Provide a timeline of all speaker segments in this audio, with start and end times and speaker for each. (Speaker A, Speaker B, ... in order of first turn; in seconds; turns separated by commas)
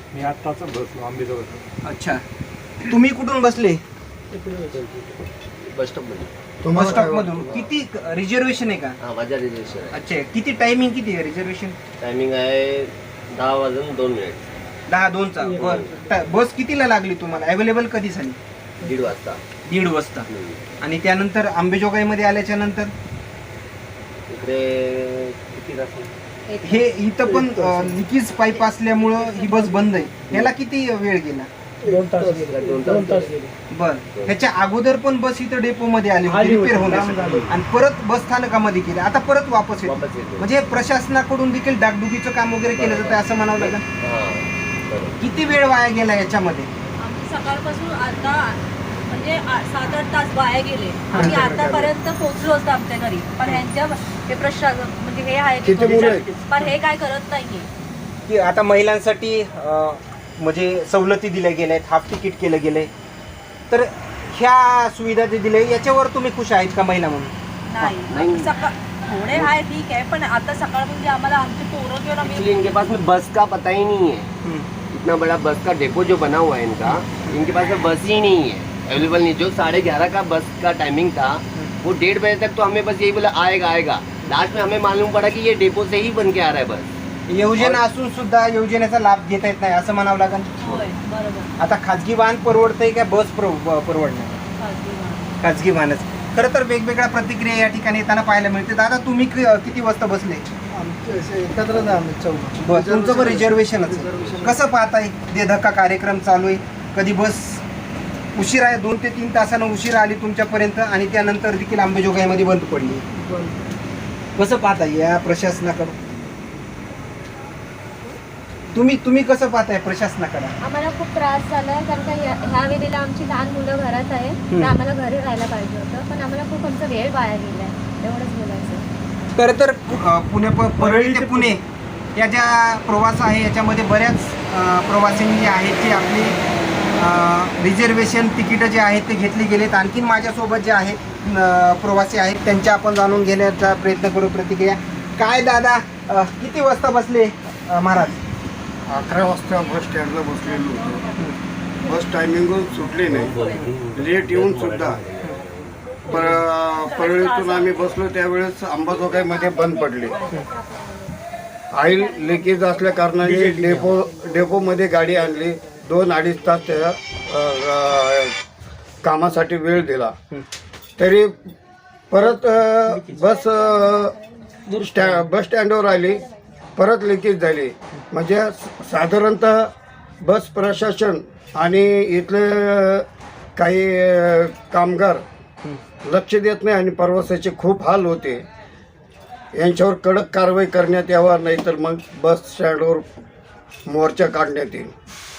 Speaker A: 0.1-1.6, Speaker B: 1.8-2.2, Speaker B: 2.8-3.8, Speaker A: 4.3-4.9, Speaker C: 5.6-6.3, Speaker D: 6.6-7.7, Speaker B: 6.7-9.0, Speaker C: 9.0-10.0, Speaker B: 9.9-11.8, Speaker C: 12.0-14.4, Speaker B: 14.9-18.4, Speaker A: 15.4-16.3, Speaker C: 15.5-15.9, Speaker C: 18.8-19.4, Speaker B: 19.6-22.9, Speaker C: 20.3-20.6, Speaker C: 24.3-26.1, Speaker E: 26.5-26.9, Speaker B: 26.6-31.5, Speaker A: 27.2-28.0, Speaker E: 29.3-29.6, Speaker A: 31.8-33.5, Speaker C: 32.0-33.4, Speaker B: 33.7-43.8, Speaker C: 34.1-34.4, Speaker A: 36.2-37.5, Speaker C: 39.8-40.5, Speaker C: 42.7-45.2, Speaker B: 45.2-46.7, Speaker F: 47.0-57.7, Speaker B: 51.1-51.4, Speaker D: 51.1-51.9, Speaker D: 55.6-56.2, Speaker A: 55.8-56.7, Speaker B: 58.3-62.9, Speaker B: 63.7-67.9, Speaker F: 67.7-72.7, Speaker C: 68.1-68.5, Speaker C: 72.2-74.3, Speaker B: 74.4-74.7, Speaker C: 74.9-86.9, Speaker B: 76.8-77.4, Speaker B: 87.3-90.5, Speaker F: 90.6-91.5, Speaker B: 91.6-94.4, Speaker F: 94.6-95.3, Speaker B: 95.4-100.4, Speaker A: 100.7-104.6, Speaker B: 102.6-107.6, Speaker C: 104.0-104.5, Speaker B: 108.3-113.0, Speaker B: 114.4-116.0, Speaker B: 118.7-120.5, Speaker E: 120.6-128.8, Speaker B: 124.5-124.8, Speaker B: 129.3-131.6, Speaker A: 130.8-131.6, Speaker B: 132.2-136.4, Speaker B: 136.9-148.2, Speaker D: 148.8-151.1, Speaker E: 150.4-152.0, Speaker D: 151.8-153.3, Speaker C: 153.0-156.0, Speaker D: 153.9-155.0, Speaker D: 156.1-160.2, Speaker F: 156.1-158.0, Speaker E: 158.9-161.1, Speaker D: 161.7-168.3, Speaker E: 161.9-162.8, Speaker A: 163.1-165.8, Speaker D: 169.0-170.2, Speaker D: 171.0-171.5, Speaker D: 172.1-174.1, Speaker A: 172.8-173.2, Speaker E: 173.2-174.7, Speaker A: 174.7-175.3, Speaker D: 174.7-176.2, Speaker E: 175.8-176.4, Speaker D: 176.8-185.2, Speaker D: 186.0-188.4, Speaker D: 189.5-193.1, Speaker D: 193.9-194.9